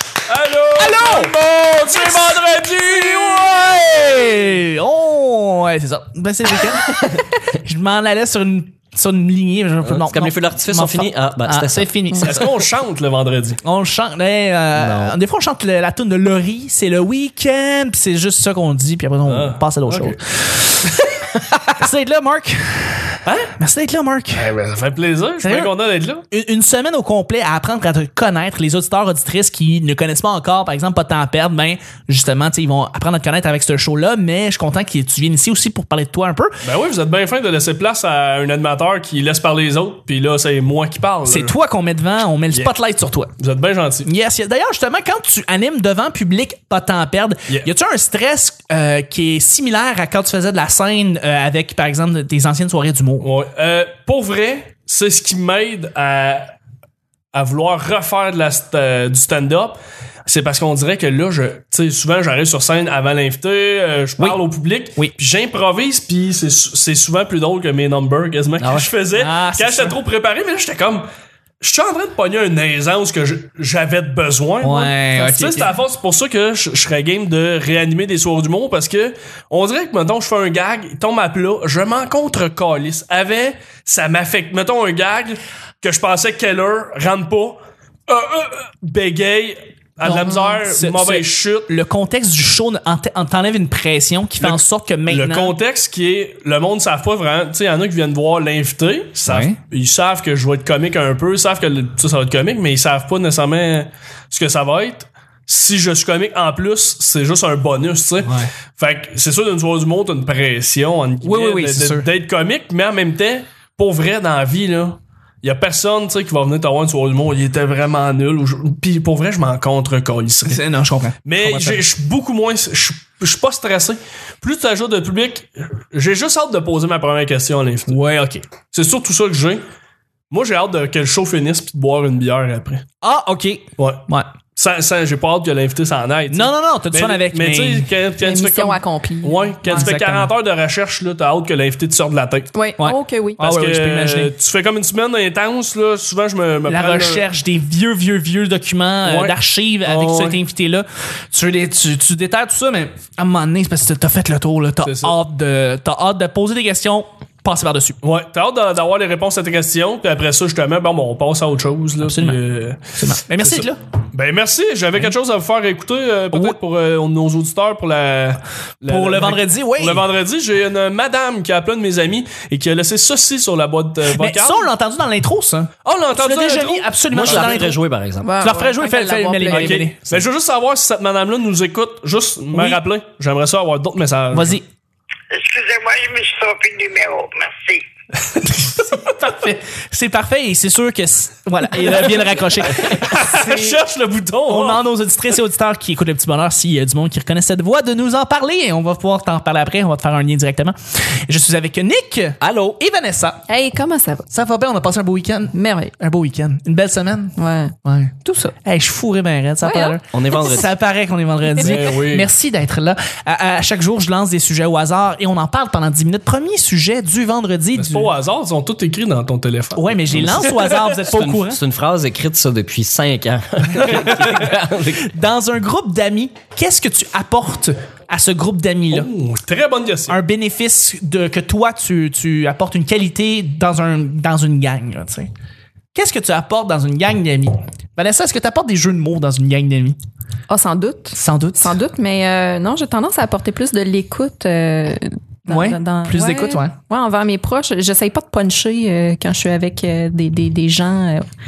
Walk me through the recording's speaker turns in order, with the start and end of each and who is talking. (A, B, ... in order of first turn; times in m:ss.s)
0:00.3-0:03.9 A
0:00.8-0:12.5 B
0:09.8-0:11.9 C
0:12.2-0:13.6 A
0:13.6-0:21.0 B
0:14.8-0:15.2 C
0:19.3-0:20.2 A
0:21.7-0:24.5 B
0:23.2-0:23.5 A
0:24.3-0:26.2 A
0:25.4-0:25.7 B
0:26.3-0:36.6 B
0:36.6-0:41.6 A
0:41.3-0:43.3 B
0:43.4-0:44.1 A
0:44.1-0:53.3 B
0:53.2-0:56.5 A
0:57.3-1:11.1 A
1:08.6-1:08.9 C
1:09.1-1:10.0 B
1:11.6-1:31.7 A
1:14.6-1:15.7 B
1:30.0-1:35.6 B
1:34.4-2:00.6 A
1:39.3-1:39.6 B
1:48.2-1:48.5 B
1:51.2-1:52.1 B
2:00.5-2:01.8 B
2:01.2-2:09.6 A
2:07.9-2:08.4 B
2:10.3-2:12.8 A
2:13.0-2:14.3 B
2:13.8-2:14.0 A
2:14.6-2:22.5 A
2:16.3-2:17.9 B
2:18.2-2:19.8 D
2:19.6-2:20.3 B
2:22.5-2:23.4 D
2:22.8-2:24.3 B
2:23.4-2:27.2 A
2:26.7-2:38.0 B
2:29.0-2:30.4 A
2:34.8-2:35.2 A
2:38.0-2:54.7 A
2:42.0-2:42.4 B
2:42.9-2:43.8 B
2:48.9-2:50.0 B
2:54.1-2:57.8 B
2:55.8-2:57.6 A
2:57.1-2:58.4 C
2:58.2-2:59.8 D
2:58.4-3:00.0 B
2:59.5-3:04.6 A
3:02.5-3:02.8 B
3:04.3-3:04.6 B
3:05.3-3:07.8 E
3:08.4-3:13.8 B
3:12.8-3:14.8 A
3:14.5-3:23.5 B
3:22.4-3:22.8 C
3:23.5-3:24.3 D
3:24.3-3:38.1 B
3:25.5-3:25.9 D
3:27.4-3:28.5 D
3:29.6-3:30.5 D
3:30.1-3:30.7 C
3:31.6-3:32.3 A
3:37.8-3:40.5 A
3:39.8-3:41.6 B
3:40.1-3:40.5 C
3:41.1-3:45.1 C
3:43.7-3:49.1 B
3:48.9-3:50.2 A
3:50.1-3:55.3 B
3:55.9-4:00.0 B
4:00.5-4:11.3 D
4:01.2-4:01.8 B
4:05.5-4:06.8 B